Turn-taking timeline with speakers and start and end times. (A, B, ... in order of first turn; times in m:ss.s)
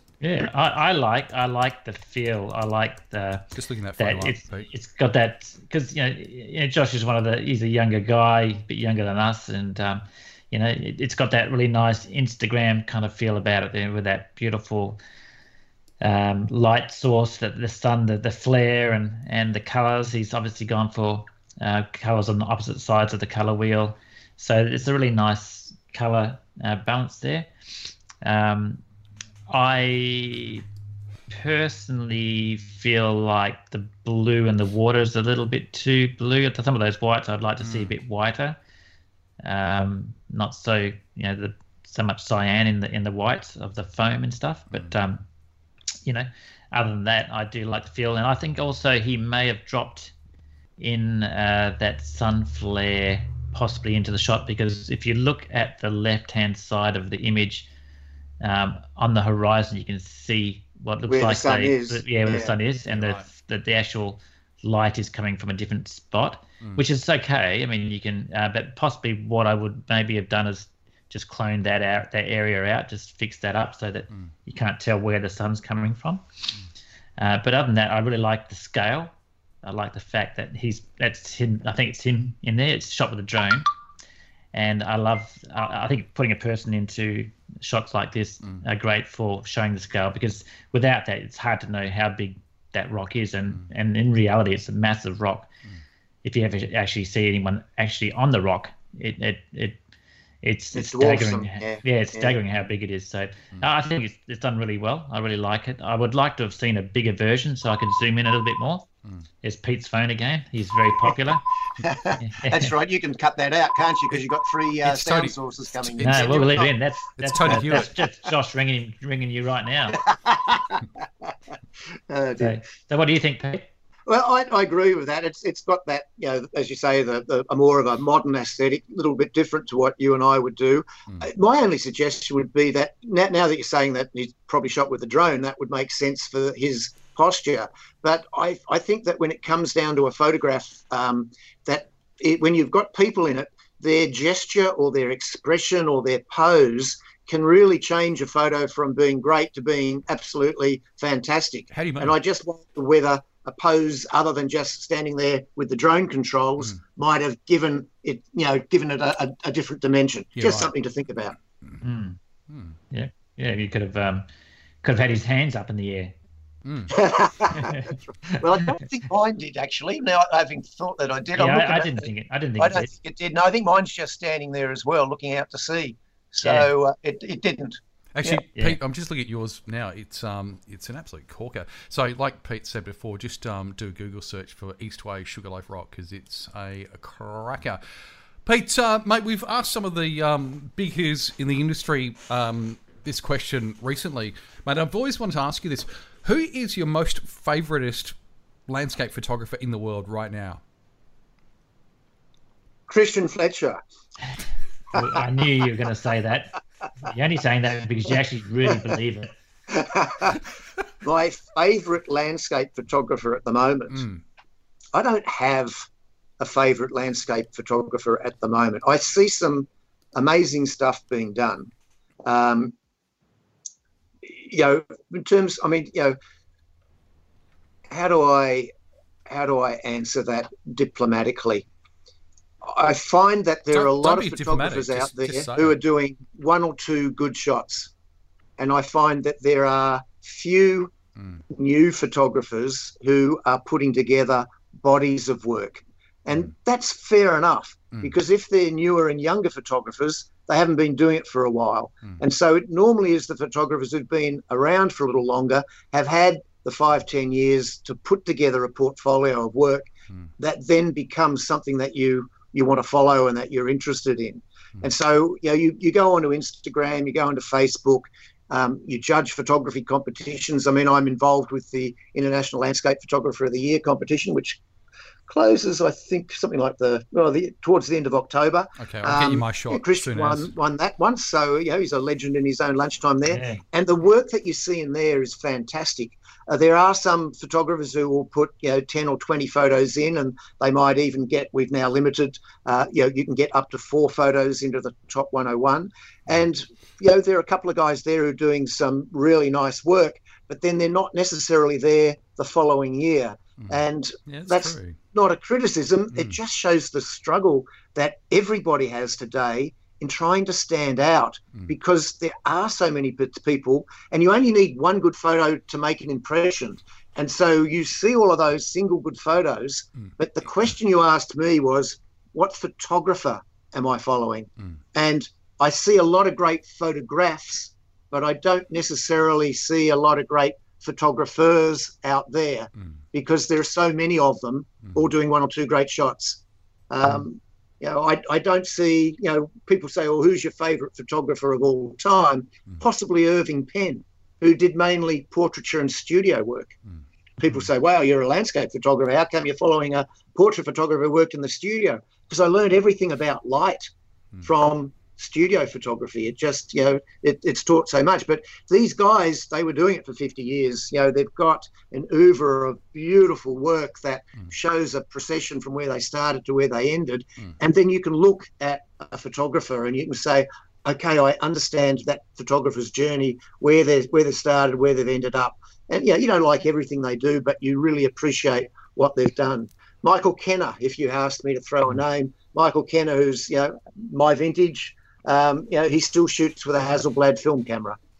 0:00.2-0:03.5 A
0:03.6-0:04.7 B
0:04.0-0:15.0 A
0:16.0-0:27.5 A
0:28.2-0:28.8 A
0:29.5-0:30.6 A
0:31.3-0:38.6 A
0:37.6-0:37.9 B
0:39.4-0:45.2 A
0:46.0-0:50.1 A
0:50.8-0:57.7 A
0:58.4-1:16.2 A
1:01.1-1:02.5 C
1:02.9-1:03.3 B
1:17.2-1:19.1 A
1:19.6-1:23.7 A
1:24.5-1:35.5 A
1:36.2-1:39.8 A
1:40.4-1:48.9 A
1:40.7-1:42.4 C
1:49.4-1:51.4 A
1:51.8-1:56.7 C
1:52.2-1:52.7 A
1:54.8-1:57.9 B
1:56.0-2:00.0 A
1:57.4-1:57.9 C
1:59.9-2:01.3 C
2:02.1-2:02.6 C
2:02.4-2:03.7 A
2:04.1-2:41.4 C
2:31.7-2:32.2 B
2:40.4-2:40.7 B
2:41.8-2:42.2 A
2:42.5-2:42.8 B
2:42.9-2:44.3 A
2:44.8-2:46.1 A
2:46.6-2:47.0 B
2:46.9-2:52.0 C
2:47.5-2:48.7 A
2:51.4-2:52.9 A
2:52.6-2:57.8 C
2:56.4-2:56.7 A
2:58.1-3:07.8 B
2:58.3-2:58.8 A
3:08.4-3:18.2 B
3:18.7-3:20.6 B
3:22.9-3:23.8 C
3:24.9-3:29.3 A
3:29.7-3:30.4 C
3:31.0-3:34.0 C
3:33.9-3:34.2 B
3:34.9-3:35.9 C
3:36.4-3:41.7 C
3:42.2-3:42.8 C
3:44.2-3:46.2 C
3:47.9-3:48.7 C
3:49.3-3:51.7 C
3:52.6-3:57.9 C
3:53.7-3:55.8 B
3:58.6-4:00.9 C
4:01.2-4:01.4 B
4:01.5-4:34.6 C
4:35.3-5:46.8 C
4:38.8-4:40.5 B
4:43.3-4:43.6 A
5:04.3-5:05.0 B
5:47.4-5:53.9 C
5:54.4-6:28.0 C